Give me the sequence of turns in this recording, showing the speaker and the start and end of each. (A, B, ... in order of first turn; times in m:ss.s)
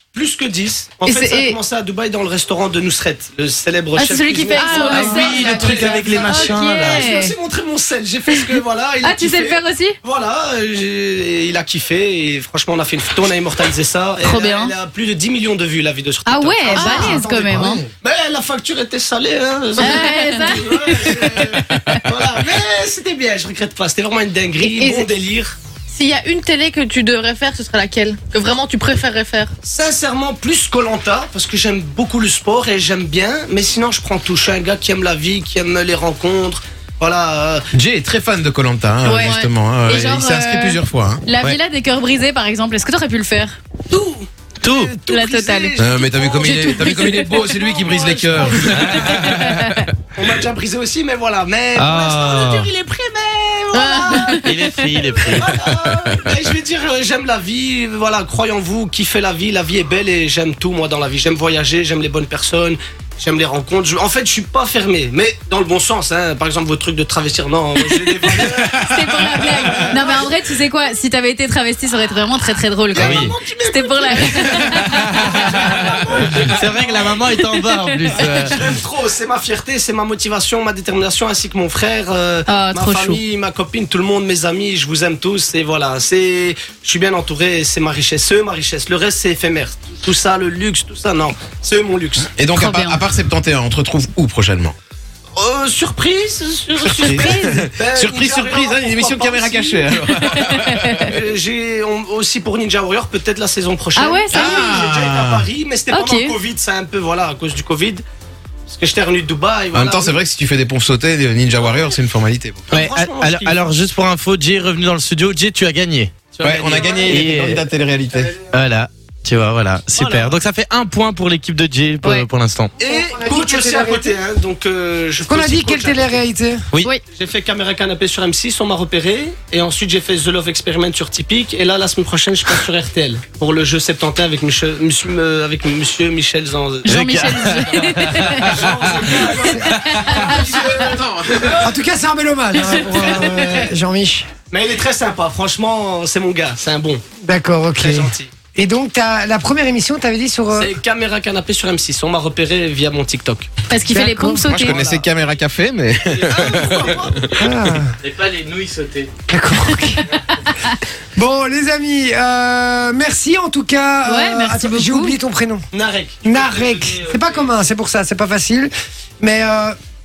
0:00.1-0:25.6 A
0:01.0-0:01.6 B
0:01.3-0:01.5 C
0:04.0-0:07.4 C
0:04.6-0:07.0 D
0:05.2-0:05.9 B
0:08.3-0:10.0 C
0:14.2-0:14.8 C
0:16.3-0:17.9 C
0:19.8-0:22.0 C
0:24.6-0:25.1 C
0:25.9-0:29.6 B
0:29.6-0:37.7 A
0:37.7-0:41.2 E
0:39.0-0:43.6 C
0:43.9-0:48.8 A
0:44.6-0:45.0 D
0:45.1-0:45.8 C
0:45.8-0:49.6 E
0:46.4-0:47.5 C
0:48.4-0:49.3 D
0:49.1-0:49.8 C
0:50.2-0:54.5 A
0:51.8-0:52.7 D
0:53.7-0:54.5 B
0:54.0-0:54.6 C
0:54.4-0:55.5 D
0:55.0-1:10.4 A
1:08.5-1:15.8 C
1:12.9-1:17.2 A
1:13.0-1:13.3 D
1:16.3-1:18.6 D
1:16.9-1:18.5 C
1:18.2-1:32.4 A
1:22.5-1:23.2 C
1:32.4-1:34.8 E
1:32.5-1:33.0 C
1:35.4-1:40.0 A
1:36.8-1:41.1 E
1:36.9-1:37.7 C
1:40.0-1:41.1 C
1:41.1-1:48.0 A
1:44.0-1:44.6 C
1:44.3-1:45.4 E
1:45.9-1:46.4 C
1:48.7-1:50.2 A
1:49.7-1:52.6 E
1:52.7-1:53.7 A
1:52.7-1:57.6 D
1:56.4-1:58.3 E
1:56.5-1:57.3 A
1:58.5-2:02.7 D
2:00.0-2:00.4 A
2:02.8-2:06.2 A
2:02.8-2:04.1 F
2:05.2-2:06.6 F
2:07.1-2:20.8 A
2:16.8-2:18.7 C
2:16.9-2:20.7 D
2:19.3-2:19.8 F
2:19.7-2:20.9 C
2:20.2-2:21.6 E
2:21.6-2:24.3 F
2:22.6-2:23.7 C
2:23.0-2:23.3 A
2:24.5-2:27.0 A
2:27.2-2:30.7 F
2:27.8-2:28.3 A
2:30.5-2:33.5 A
2:33.7-2:34.9 C
2:33.9-2:34.5 F
2:34.5-2:37.8 E
2:34.6-2:35.0 A
2:36.0-2:37.4 A
2:37.4-2:37.9 F
2:38.0-2:39.1 D
2:39.3-2:40.2 F
2:41.2-2:45.7 F
2:44.0-2:45.2 C
2:45.7-2:46.2 A
2:46.2-2:49.8 F
2:46.2-2:47.5 D